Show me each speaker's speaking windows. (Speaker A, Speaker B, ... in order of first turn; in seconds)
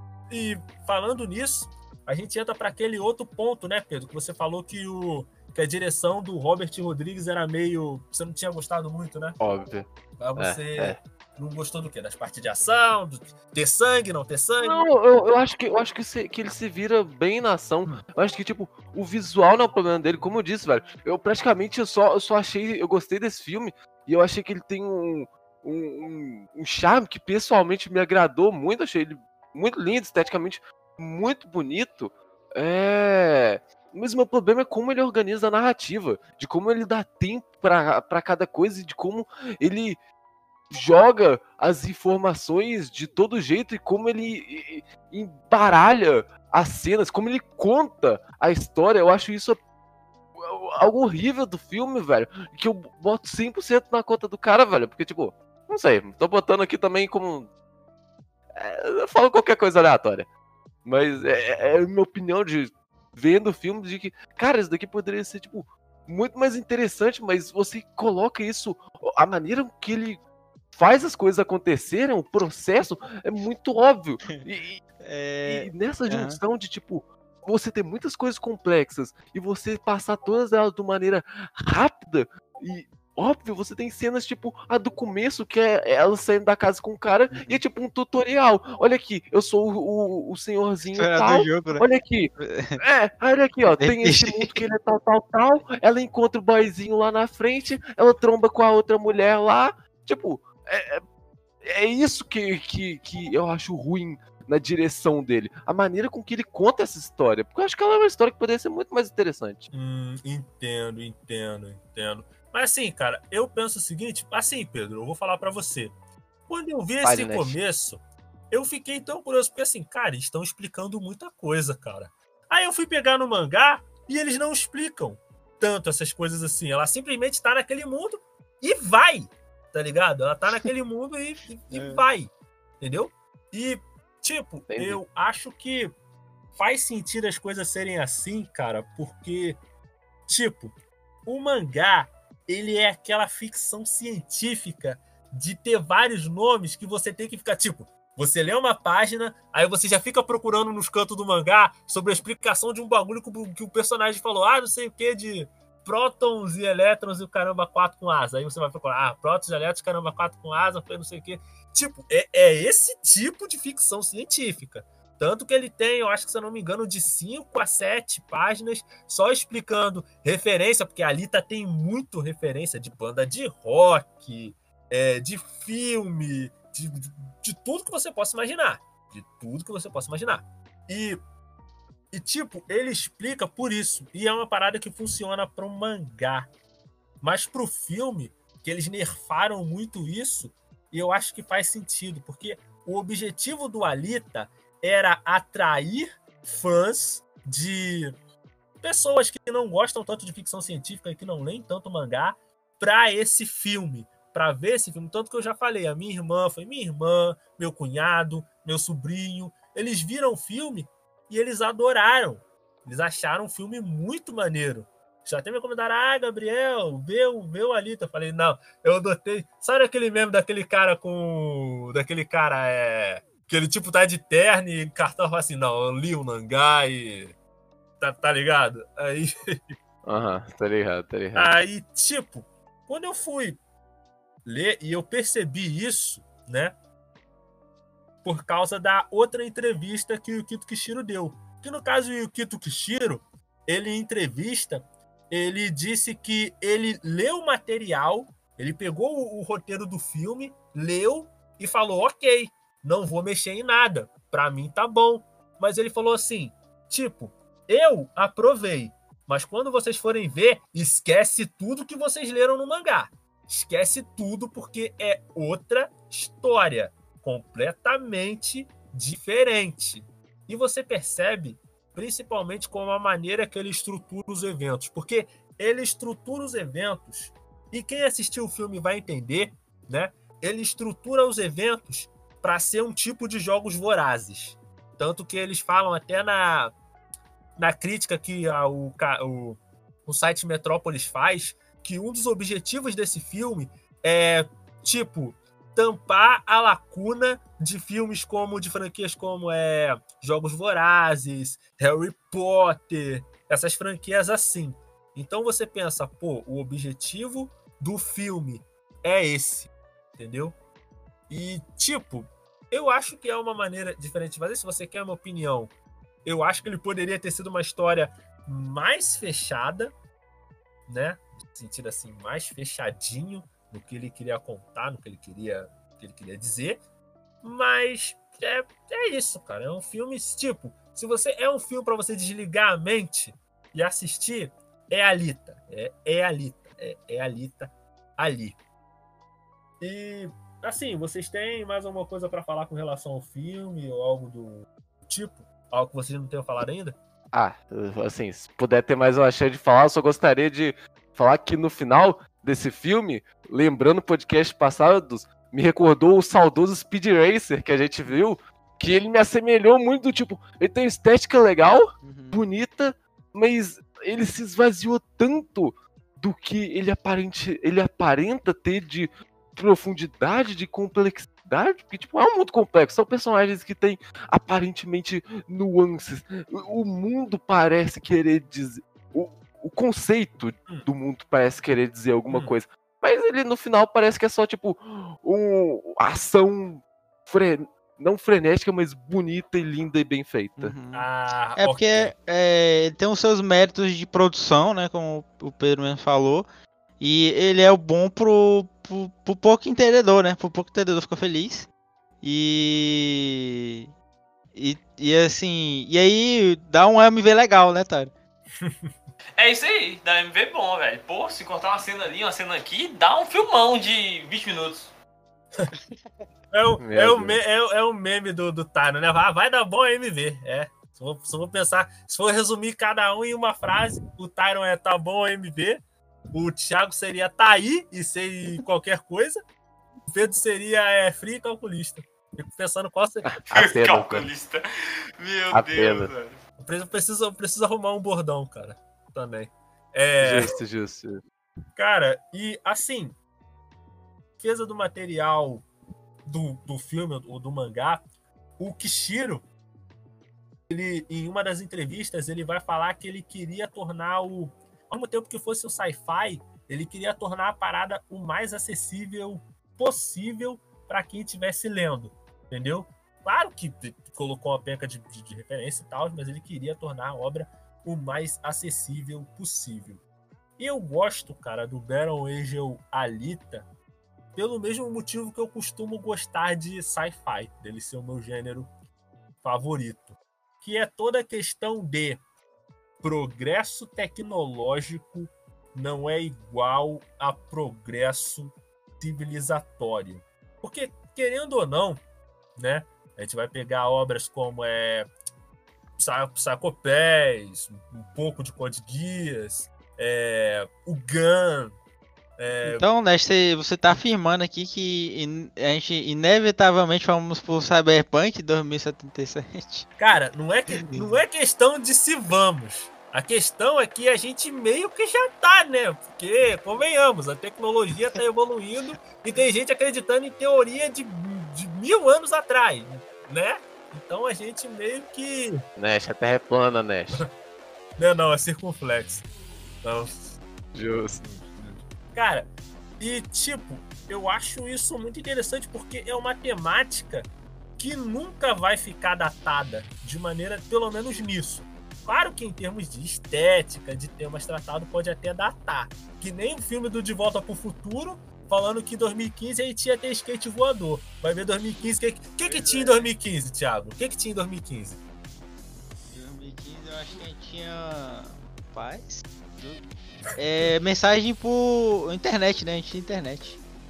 Speaker A: 0.3-9.4, 10.2-14.9, 109.7-116.0, 116.5-135.9, 136.6-139.6, 140.3-140.7, 141.3-181.2, 182.1-186.5, 187.2-198.1, 198.8-227.3, 228.0-229.7, 231.3-233.6, 234.4-236.8, 238.2-286.7, 287.6-310.6, 311.3-315.7, 316.2-319.9, 320.9-326.8, 327.4-338.6, 339.8-347.0, 390.9-392.1, 408.6-408.9, 416.5-429.4, 430.1-433.3, 436.6-440.5, 441.8-443.2, 444.4-445.7, 446.2-448.0, 448.6-449.4, 450.7-470.0, 470.6-473.7, 474.3-478.7, 479.4-482.2, 483.0-492.0, 492.6-495.1, 496.0-501.8, 502.4-502.8, 510.0-525.6, 528.0-529.3, 529.8-530.3, 532.1-537.3, 537.8-555.0
Speaker B: 9.4-9.8, 10.4-11.0, 14.6-40.0, 40.7-49.6, 50.4-57.5, 58.6-60.3, 60.9-70.2, 70.7-74.8, 75.5-101.0, 101.6-109.7, 117.0-117.6, 134.7-135.0, 230.1-231.5, 347.3-390.8, 416.8-417.4, 433.2-434.3, 435.5-436.1, 440.2-441.2, 525.8-527.2, 530.8-531.5
Speaker C: 75.0-76.4, 87.3-87.6, 91.0-91.9, 92.4-92.8, 93.8-94.6, 131.7-132.0, 362.0-362.4, 390.6-391.1, 391.6-396.4, 397.0-401.7, 402.2-403.9, 404.6-408.1, 502.6-509.9, 510.8-511.1, 552.4-553.1, 556.1-559.8, 560.4-563.6
Speaker D: 409.4-414.9, 433.5-434.6, 435.2-436.4